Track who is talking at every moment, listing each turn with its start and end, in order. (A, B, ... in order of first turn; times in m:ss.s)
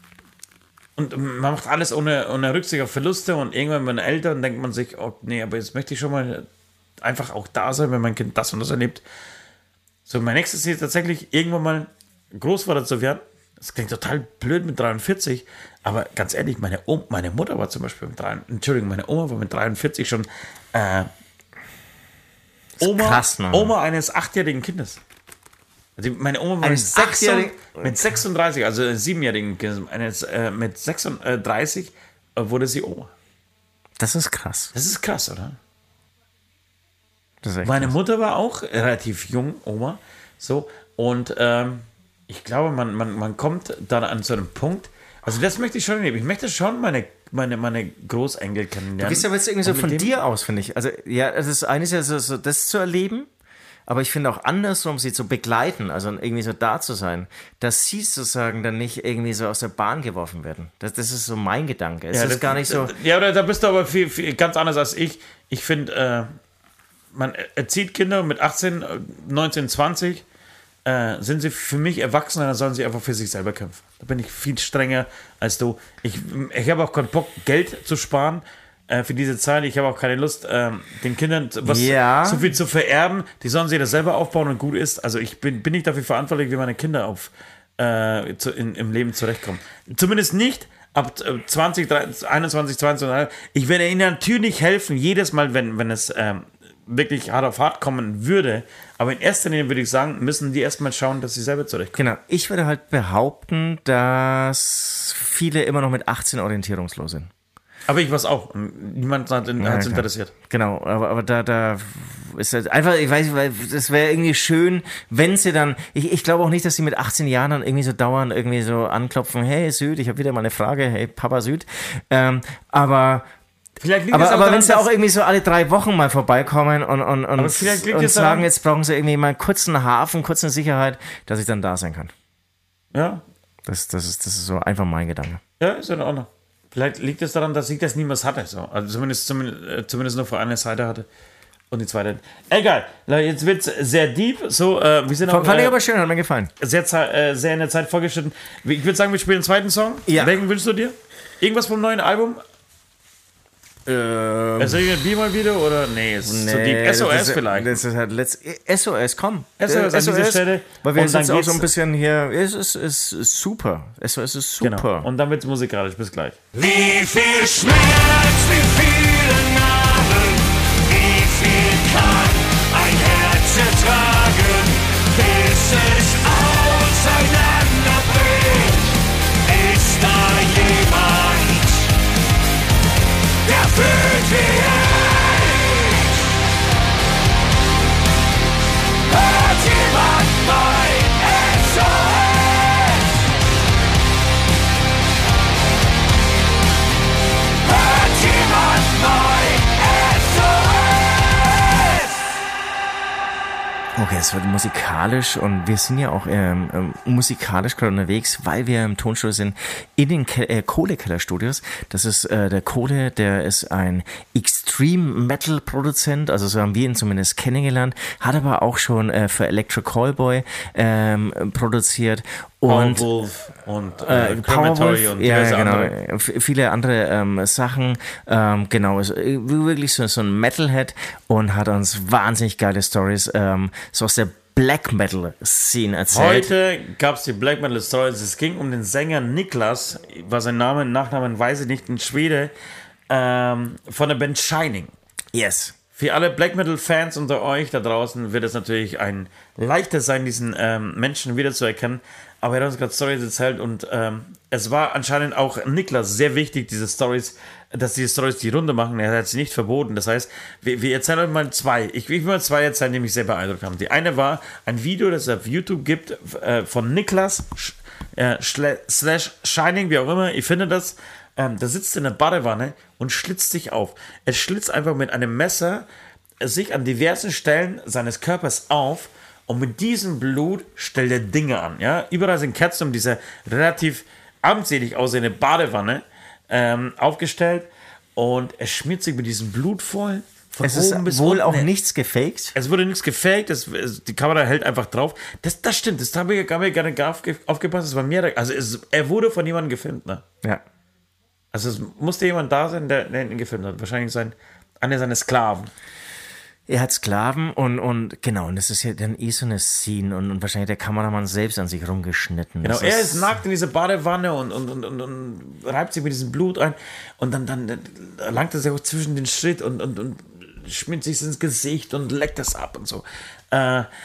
0:01.0-0:06.4 A
0:07.0-0:09.0 A
0:10.0-0:21.1 A
0:22.8-0:25.0 A
0:22.8-0:23.7 B
0:26.0-0:33.1 A
0:26.6-0:28.0 B
0:34.0-0:34.7 B
0:34.7-0:35.6 A
0:37.4-0:37.9 B
0:37.6-0:50.1 A
0:49.0-0:53.3 B
0:53.9-1:02.9 B
1:02.1-1:06.3 A
1:07.1-1:10.2 A
1:10.8-1:42.0 A
1:21.6-1:22.5 B
1:41.9-1:47.3 B
1:47.9-1:50.3 A
1:49.6-2:03.2 B
2:03.8-2:04.9 A
2:04.1-2:12.1 B
2:07.4-2:08.5 A
2:12.9-2:13.2 A
2:13.6-2:15.4 B
2:15.6-2:21.1 A
2:21.7-2:25.8 A
2:25.3-2:26.5 B
2:26.6-2:32.4 A
2:30.1-2:30.4 B
2:33.8-2:34.9 B
2:34.6-2:37.7 A
2:36.2-2:45.1 B
2:39.6-2:41.7 A
2:44.6-2:46.4 A
2:46.5-3:01.9 C
3:03.4-3:06.0 C
3:09.1-3:13.0 C
3:17.6-3:22.0 C
3:24.0-3:43.0 B
3:42.6-3:45.9 A
3:44.0-3:56.5 B
3:56.1-4:02.5 A
4:03.1-4:04.9 A
4:05.3-4:05.8 B
4:06.0-4:35.9 A
4:36.4-4:51.7 A
4:50.6-4:52.5 B
4:52.5-5:00.2 A
5:01.5-5:05.7 A
5:06.7-5:13.3 B
5:12.6-5:23.9 A